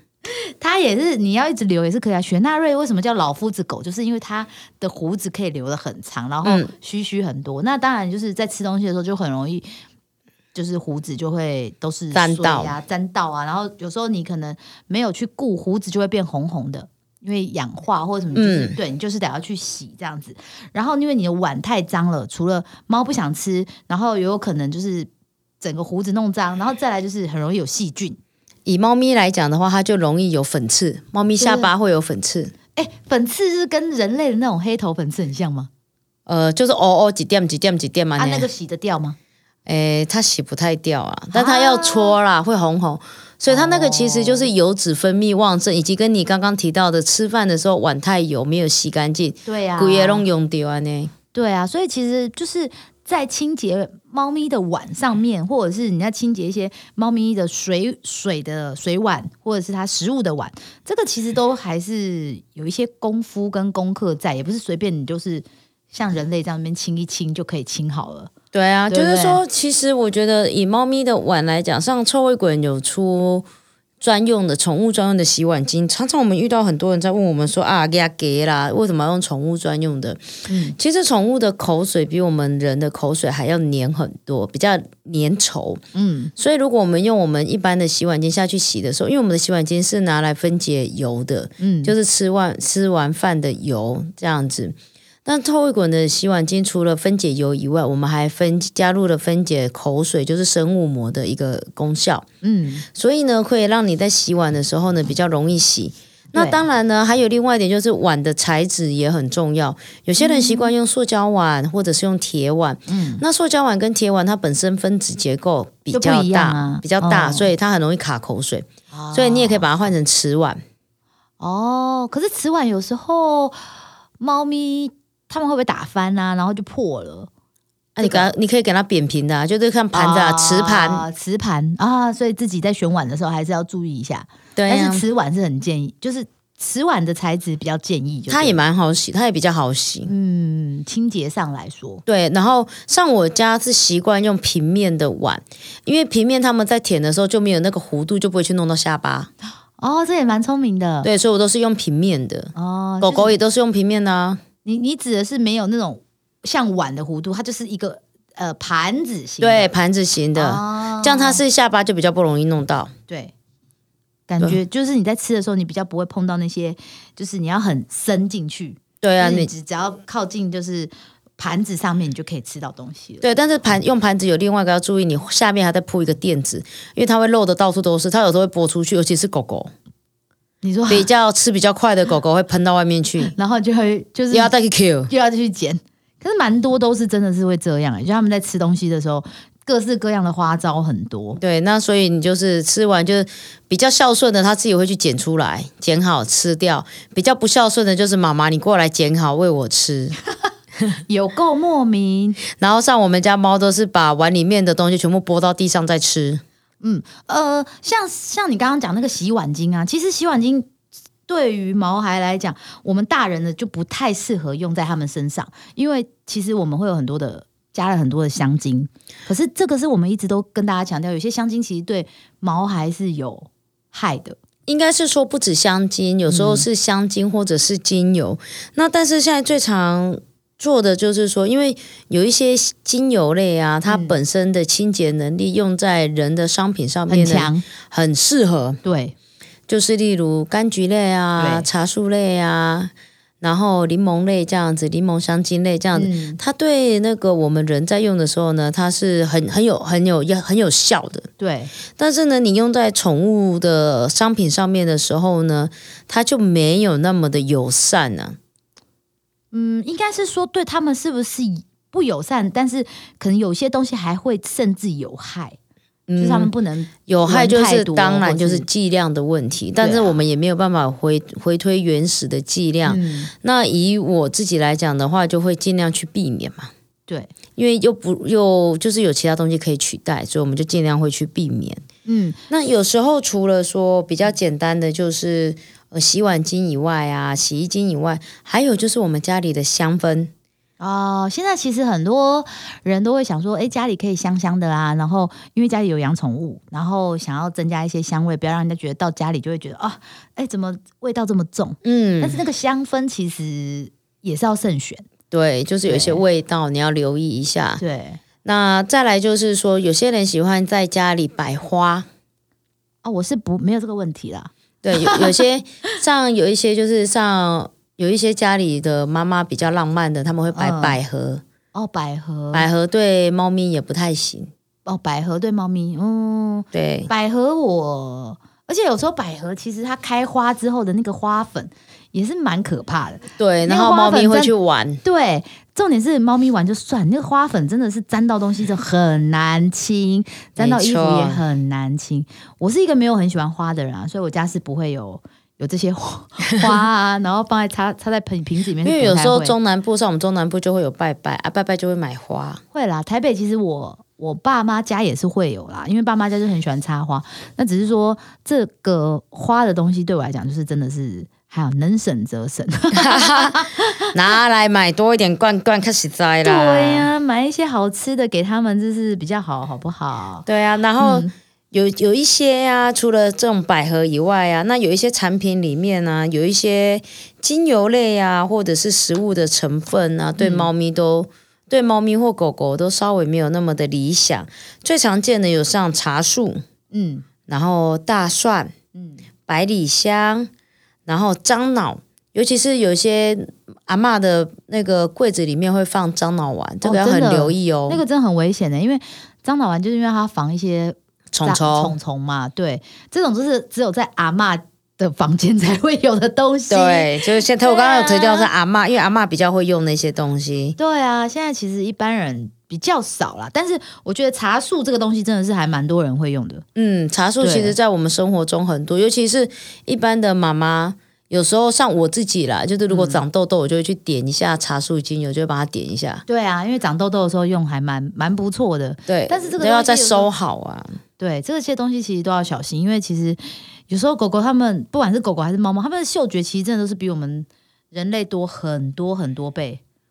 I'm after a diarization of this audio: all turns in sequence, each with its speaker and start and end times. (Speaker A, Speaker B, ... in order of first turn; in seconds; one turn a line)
Speaker A: 0.2-9.7
Speaker B: 6.4-6.7
Speaker A: 10.5-25.1
Speaker B: 12.1-12.8
Speaker B: 18.3-18.8
Speaker A: 25.6-28.2
Speaker B: 28.7-32.5
Speaker A: 31.4-31.7
Speaker A: 32.8-35.7
Speaker B: 36.3-38.5
Speaker A: 38.2-39.2
Speaker B: 39.7-51.1
Speaker A: 41.3-42.2
Speaker A: 43.5-44.5
Speaker A: 49.5-50.3
Speaker A: 51.3-68.3
Speaker B: 68.5-73.5
Speaker A: 68.9-69.4
Speaker B: 74.0-85.8
Speaker A: 80.5-80.8
Speaker A: 85.9-86.3
Speaker B: 86.4-102.2
Speaker A: 91.6-91.9
Speaker A: 102.4-102.8
Speaker B: 102.9-120.6
Speaker A: 106.3-106.7
Speaker A: 110.2-110.7
Speaker A: 112.9-113.2
Speaker A: 115.9-117.5
Speaker A: 118.9-119.7
Speaker A: 121.4-123.6
Speaker A: 124.2-127.3
Speaker B: 128.0-131.1
Speaker A: 128.0-128.3
Speaker A: 129.9-138.6
Speaker B: 134.6-135.1
Speaker B: 138.3-140.1
Speaker A: 140.1-142.0
Speaker B: 142.1-149.3
Speaker A: 149.8-151.1
Speaker B: 151.0-154.4
Speaker A: 152.6-153.4
Speaker A: 154.7-159.7
Speaker B: 159.4-162.9
Speaker A: 160.3-161.4
Speaker A: 163.1-163.3
Speaker A: 164.3-173.2
Speaker B: 169.0-169.5
Speaker B: 173.2-179.7
Speaker A: 180.6-181.1
Speaker B: 180.9-183.3
Speaker A: 183.2-184.6
Speaker B: 184.3-185.1
Speaker A: 185.1-191.4
Speaker B: 191.4-200.2
Speaker A: 201.1-202.4
Speaker B: 202.6-206.4
Speaker A: 206.8-210.7
Speaker A: 211.3-224.4
Speaker B: 224.7-238.8
Speaker A: 226.3-226.7
Speaker A: 233.9-234.2
Speaker A: 237.1-237.7
Speaker A: 238.8-239.2
Speaker B: 239.7-251.3
Speaker A: 241.4-241.7
Speaker A: 245.9-246.4
Speaker A: 251.4-251.7
Speaker B: 252.0-258.4
Speaker A: 259.5-265.6
Speaker B: 266.1-266.5
Speaker A: 266.2-268.7
Speaker B: 267.1-276.7
Speaker A: 269.8-270.1
Speaker A: 272.9-273.3
Speaker B: 277.6-281.8
Speaker A: 282.1-282.4
Speaker B: 282.5-290.3
Speaker A: 290.8-305.1
Speaker B: 301.8-302.4
Speaker B: 305.3-307.8
Speaker A: 305.9-306.2
Speaker A: 307.8-308.2
Speaker B: 308.4-312.1
Speaker A: 313.0-315.4
Speaker B: 314.8-321.4
Speaker A: 320.6-321.0
Speaker A: 321.7-322.7
Speaker B: 322.5-324.5
Speaker A: 324.9-349.6
Speaker B: 326.7-327.1
Speaker B: 333.4-335.0
Speaker B: 340.6-341.4
Speaker B: 348.8-352.6
Speaker A: 352.7-363.9
Speaker B: 362.9-367.1
Speaker A: 366.4-370.5
Speaker B: 370.5-386.6
Speaker A: 371.0-371.3
Speaker A: 380.4-380.7
Speaker A: 386.9-387.2
Speaker B: 387.5-388.7
Speaker A: 388.9-389.2
Speaker B: 389.5-390.5
Speaker B: 391.1-398.0
Speaker A: 396.8-408.5
Speaker B: 401.3-401.9
Speaker B: 406.7-410.8
Speaker A: 410.8-416.6
Speaker B: 416.8-426.2
Speaker A: 417.4-417.8
Speaker A: 422.9-423.2
Speaker A: 426.3-430.3
Speaker B: 429.1-431.0
Speaker A: 431.2-439.8